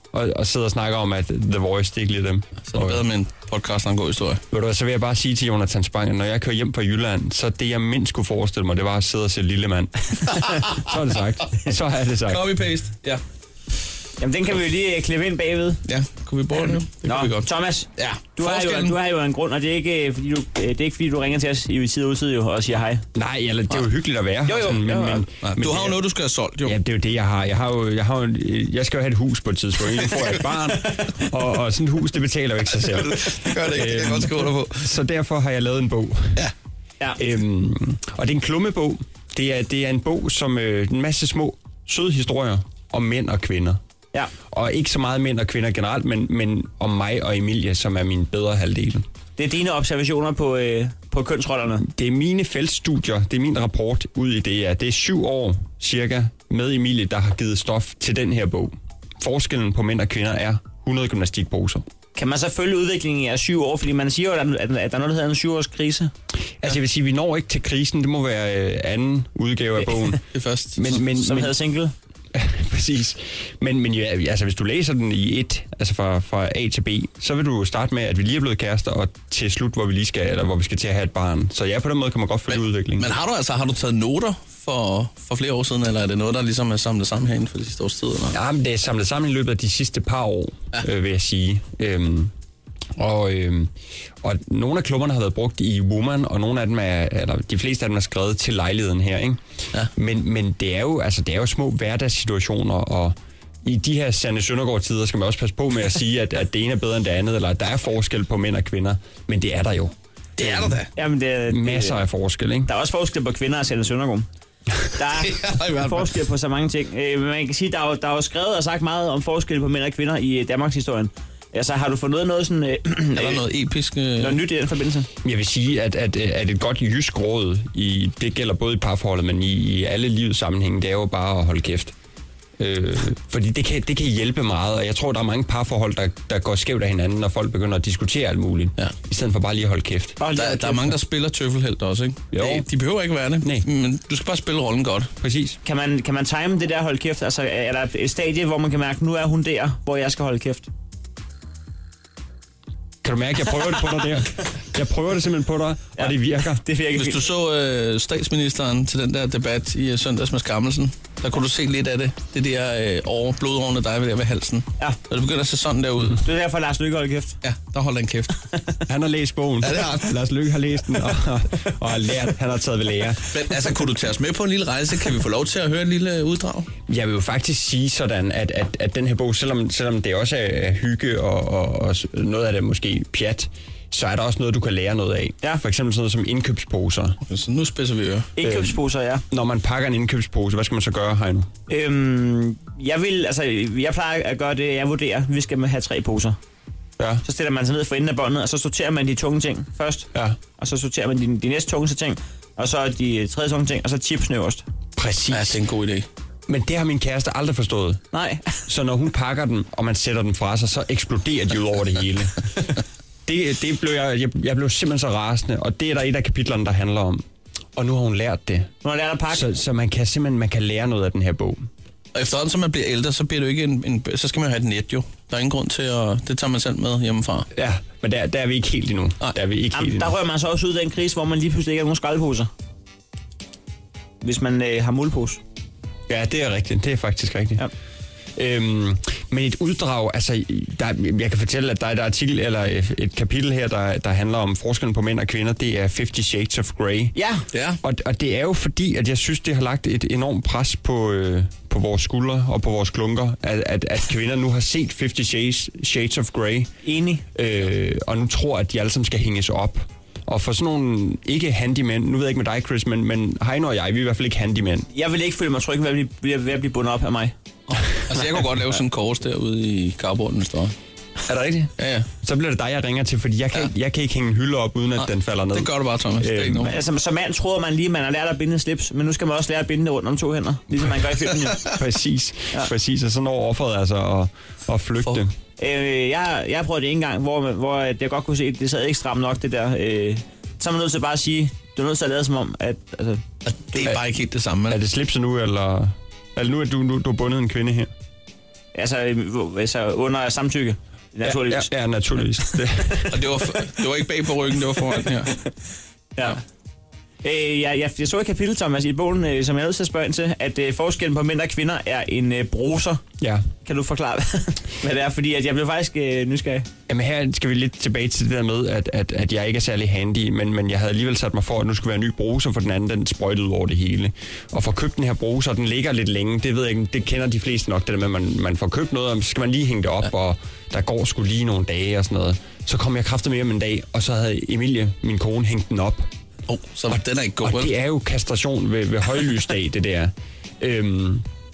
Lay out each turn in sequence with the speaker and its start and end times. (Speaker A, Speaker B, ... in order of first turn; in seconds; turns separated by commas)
Speaker A: 0.1-3.0, Speaker B: 2.6-4.4, Speaker A: 4.5-12.6, Speaker B: 12.2-13.2, Speaker C: 14.2-15.8, Speaker B: 15.8-18.9, Speaker C: 17.0-23.0, Speaker A: 23.1-26.0, Speaker B: 24.5-26.8, Speaker C: 24.5-25.0, Speaker A: 26.6-36.4, Speaker B: 32.9-34.8, Speaker A: 37.2-43.8, Speaker A: 44.5-49.0, Speaker C: 49.4-51.8, Speaker A: 51.8-61.8, Speaker C: 62.1-66.1, Speaker A: 66.6-70.2, Speaker B: 70.3-70.9, Speaker A: 70.8-71.6, Speaker C: 71.0-71.9, Speaker A: 72.3-83.1, Speaker B: 82.5-88.3, Speaker A: 88.3-92.3, Speaker A: 93.0-93.7, Speaker A: 94.2-99.4, Speaker A: 100.0-110.8, Speaker B: 110.4-110.9, Speaker C: 110.9-112.0, Speaker A: 111.5-112.7, Speaker C: 112.7-114.2, Speaker C: 115.0-123.4, Speaker B: 115.2-116.1, Speaker B: 123.1-124.4, Speaker C: 124.2-125.1, Speaker A: 125.2-131.9, Speaker A: 132.6-140.2, Speaker C: 140.2-140.9, Speaker B: 140.3-145.1, Speaker A: 142.3-142.7, Speaker A: 145.2-145.6, Speaker C: 145.6-150.7, Speaker A: 153.0-156.6, Speaker C: 156.0-157.2, Speaker B: 156.9-166.2, Speaker C: 166.1-167.4, Speaker B: 167.4-168.3, Speaker A: 168.9-173.8, Speaker B: 169.6-170.1, Speaker B: 173.3-176.7, Speaker A: 176.9-187.2, Speaker B: 187.2-188.3, Speaker C: 188.4-189.2, Speaker A: 188.4-191.5, Speaker C: 191.7-196.4, Speaker C: 197.2-204.6, Speaker A: 205.0-205.6, Speaker B: 205.3-206.1, Speaker A: 206.5-208.0, Speaker C: 208.1-208.6, Speaker A: 208.7-217.2, Speaker A: 217.8-218.7, Speaker C: 218.8-219.4, Speaker A: 219.3-221.7, Speaker B: 222.1-227.5, Speaker A: 227.5-230.2, Speaker C: 229.7-232.5, Speaker C: 234.2-235.4, Speaker A: 236.1-237.7, Speaker A: 238.3-247.1, Speaker C: 247.1-247.4, Speaker B: 247.5-247.8, Speaker A: 247.8-256.7, Speaker C: 256.8-257.2, Speaker A: 257.3-264.9, Speaker C: 264.9-267.3, Speaker B: 267.7-270.7, Speaker A: 271.3-276.8, Speaker B: 271.8-272.1, Speaker B: 275.0-276.8, Speaker C: 276.6-281.6, Speaker A: 281.8-285.3, Speaker C: 285.6-293.8, Speaker B: 293.4-294.8, Speaker A: 294.7-297.9, Speaker C: 298.7-301.7, Speaker A: 301.2-303.2, Speaker B: 303.1-305.3, Speaker C: 307.2-313.0, Speaker A: 313.2-313.4, Speaker C: 313.6-316.7, Speaker A: 316.9-336.1, Speaker B: 336.5-337.7, Speaker A: 336.9-341.2